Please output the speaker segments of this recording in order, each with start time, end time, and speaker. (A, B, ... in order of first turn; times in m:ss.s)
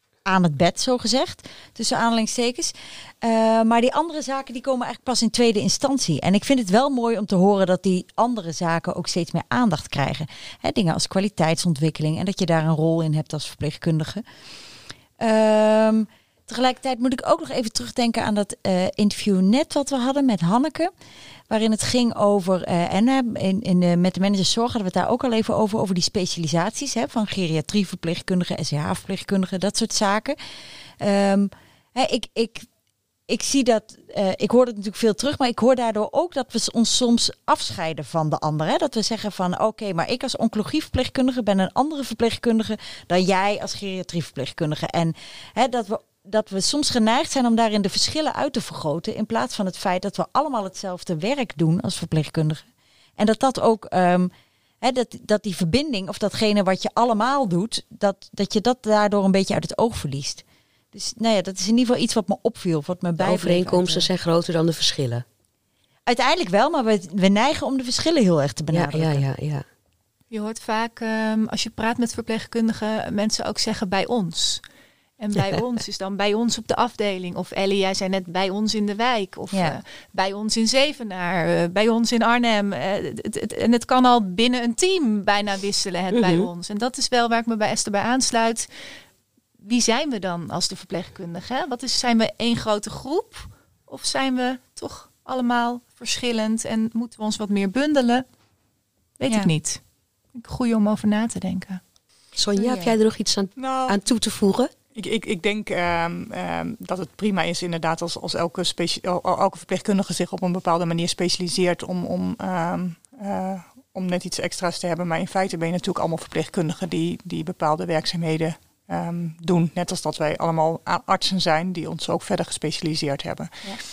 0:00.2-0:14.2 A
0:15.2-0:20.9 A
0:21.5-0:30.4 A
0:31.0-0:32.7 A
0:33.3-0:52.6 A
0:53.2-0:54.3 A
0:54.8-1:04.1 A
1:03.2-1:05.2 B
1:06.1-1:09.3 A
1:08.7-1:09.6 B
1:10.3-1:14.6 C
1:15.2-1:28.7 C
1:19.5-1:19.8 A
1:29.6-1:38.2 C
1:39.2-1:39.8 C
1:40.3-1:41.8 C
1:42.4-1:44.7 B
1:42.6-1:42.9 C
1:43.6-1:44.0 D
1:44.9-2:03.6 D